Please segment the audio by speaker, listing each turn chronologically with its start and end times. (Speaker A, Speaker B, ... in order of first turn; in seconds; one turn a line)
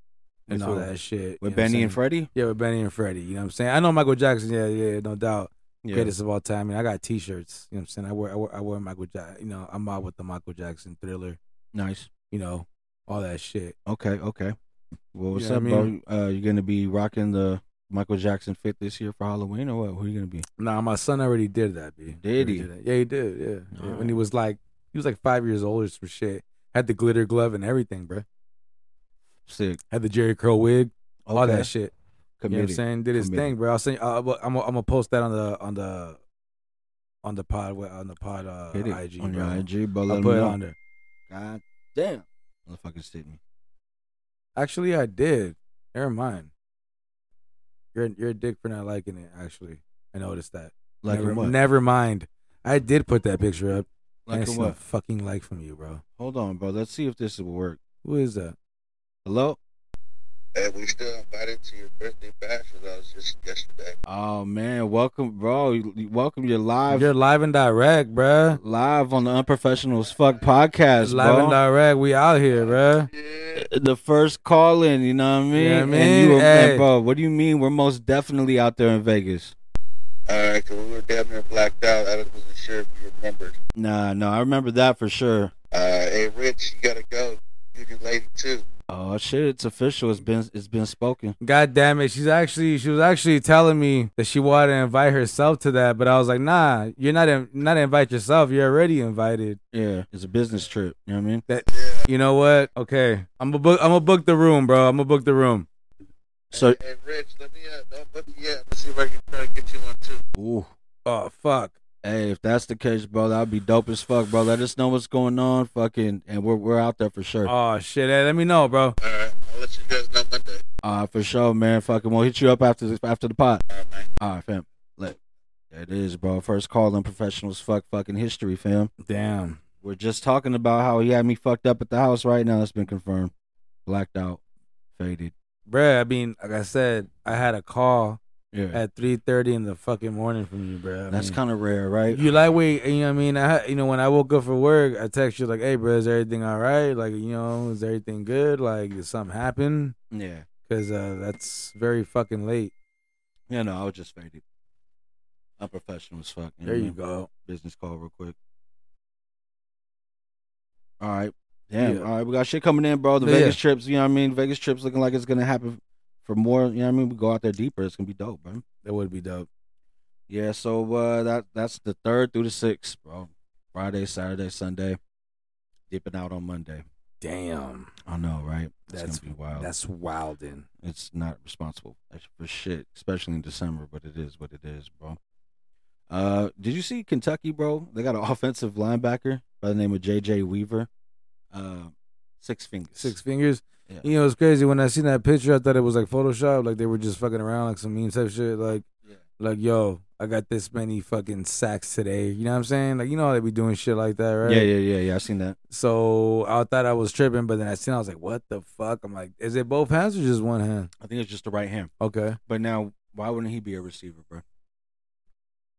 Speaker A: 0.5-2.3
Speaker B: 0.5-11.4
Speaker A: 5.8-6.1
Speaker A: 11.7-12.1
Speaker B: 12.3-13.7
Speaker A: 13.8-14.6
Speaker A: 15.1-20.4
Speaker B: 15.3-15.9
Speaker B: 20.6-28.2
Speaker A: 22.2-22.7
Speaker A: 23.7-24.2
Speaker A: 29.5-29.8
Speaker B: 29.9-31.9
Speaker A: 31.2-31.7
Speaker A: 32.4-33.5
Speaker B: 32.5-36.2
Speaker B: 37.2-40.8
Speaker A: 38.7-40.6
Speaker A: 41.3-43.4
Speaker B: 44.5-46.5
Speaker B: 47.9-56.0
Speaker A: 51.0-51.5
Speaker A: 54.2-54.8
Speaker A: 56.2-57.8
Speaker B: 58.0-58.5
Speaker A: 59.2-59.6
Speaker C: 60.5-64.0
Speaker A: 64.0-67.1
Speaker B: 66.9-68.6
Speaker A: 68.5-71.6
Speaker B: 71.0-73.1
Speaker C: 73.1-73.6
Speaker A: 73.5-79.5
Speaker B: 75.5-76.9
Speaker C: 80.3-83.5
Speaker A: 83.7-85.5
Speaker C: 85.7-88.6
Speaker A: 88.9-91.3
Speaker B: 91.4-99.6
Speaker A: 99.7-101.4
Speaker B: 101.5-105.7
Speaker C: 101.7-102.1
Speaker A: 106.5-106.8
Speaker C: 106.5-110.2
Speaker A: 110.3-110.7
Speaker B: 111.0-111.7
Speaker A: 112.0-117.5
Speaker B: 117.4-119.0
Speaker C: 119.0-120.6
Speaker A: 120.8-123.6
Speaker C: 123.7-124.1
Speaker A: 124.2-125.2
Speaker A: 125.7-128.9
Speaker B: 129.0-129.6
Speaker A: 129.8-133.3
Speaker A: 133.8-134.4
Speaker A: 134.9-135.3
Speaker B: 135.7-138.2
Speaker A: 138.5-138.8
Speaker B: 138.7-141.4
Speaker A: 141.1-142.2
Speaker B: 142.1-149.9
Speaker A: 150.1-150.4
Speaker B: 150.7-152.7
Speaker A: 153.5-154.4
Speaker A: 155.6-158.3
Speaker B: 156.6-157.3
Speaker A: 161.0-168.6
Speaker B: 161.8-162.1
Speaker B: 163.2-163.6
Speaker B: 168.8-169.5
Speaker A: 170.3-175.0
Speaker A: 175.9-176.8
Speaker B: 177.2-177.9
Speaker A: 178.1-179.7
Speaker B: 178.9-180.7
Speaker A: 180.8-185.2
Speaker A: 186.1-190.9
Speaker A: 191.5-193.2
Speaker B: 192.9-198.8
Speaker B: 199.4-204.7
Speaker A: 204.4-205.6
Speaker B: 205.7-210.9
Speaker A: 211.0-211.9
Speaker B: 212.0-212.4
Speaker A: 212.5-214.4